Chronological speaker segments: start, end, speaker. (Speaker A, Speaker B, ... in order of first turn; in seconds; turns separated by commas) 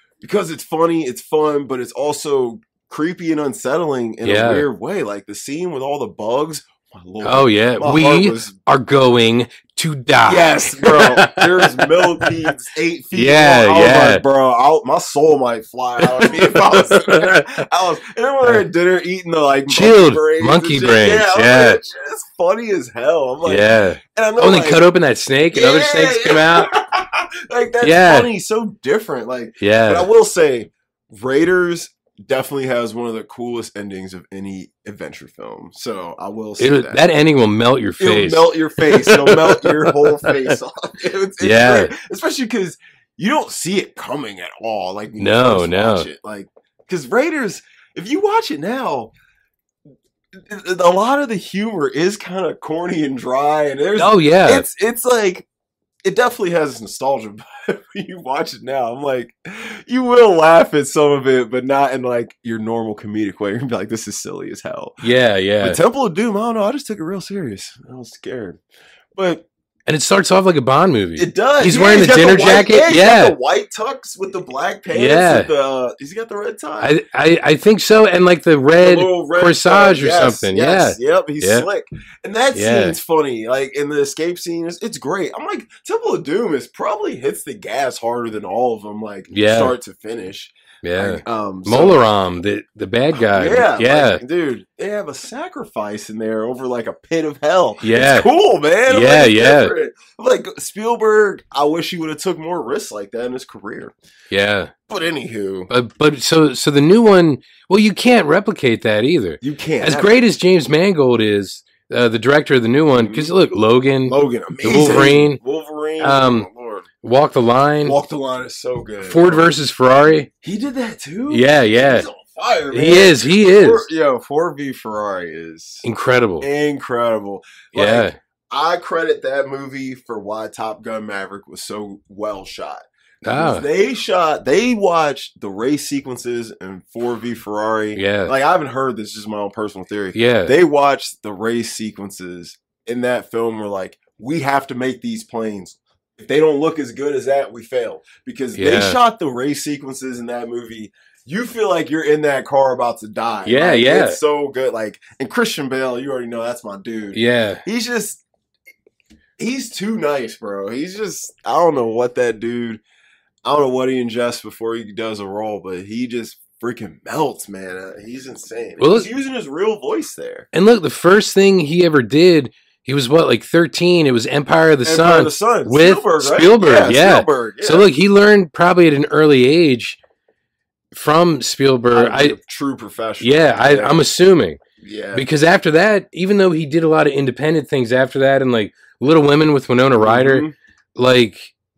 Speaker A: 0.2-8.6, Speaker B: 4.2-4.7, Speaker B: 7.2-12.5, Speaker A: 10.3-24.9, Speaker B: 13.1-14.2, Speaker B: 16.0-17.6, Speaker B: 19.7-21.8, Speaker B: 23.4-26.7, Speaker A: 25.5-37.0, Speaker B: 27.8-28.3, Speaker B: 29.6-30.1, Speaker B: 36.6-40.5, Speaker A: 38.0-49.1, Speaker B: 41.4-41.9, Speaker B: 45.2-46.1, Speaker A: 50.3-55.5, Speaker B: 54.0-54.6, Speaker A: 56.0-65.0, Speaker B: 65.0-65.8, Speaker A: 65.6-68.6, Speaker A: 69.1-69.5, Speaker B: 69.9-73.4, Speaker A: 71.2-76.9, Speaker B: 74.9-75.5, Speaker B: 76.8-81.7, Speaker A: 78.8-92.0, Speaker B: 82.5-83.0, Speaker B: 89.3-89.8, Speaker B: 90.8-94.2, Speaker A: 93.2-103.9, Speaker B: 97.8-98.3, Speaker B: 98.9-99.7, Speaker B: 104.3-104.7, Speaker A: 104.9-105.7, Speaker B: 105.7-115.4, Speaker A: 109.4-110.2, Speaker A: 112.9-113.3, Speaker A: 114.1-116.9, Speaker B: 116.0-116.5, Speaker B: 117.0-118.0, Speaker A: 117.8-119.5, Speaker B: 119.0-120.3, Speaker A: 120.4-125.8, Speaker B: 121.3-122.1, Speaker B: 122.7-123.9, Speaker B: 125.8-126.5, Speaker A: 126.4-158.2, Speaker B: 127.7-128.2, Speaker B: 133.2-133.7, Speaker B: 138.0-138.3, Speaker B: 140.1-140.6, Speaker B: 148.6-149.0, Speaker B: 153.4-154.2, Speaker B: 157.1-157.6, Speaker A: 159.4-162.8, Speaker A: 163.4-170.5, Speaker B: 168.8-169.1, Speaker B: 170.5-180.0, Speaker A: 174.8-177.9, Speaker B: 180.9-182.4, Speaker A: 181.9-184.0, Speaker B: 183.2-184.6, Speaker A: 184.8-185.3, Speaker B: 185.1-191.5, Speaker A: 190.0-190.5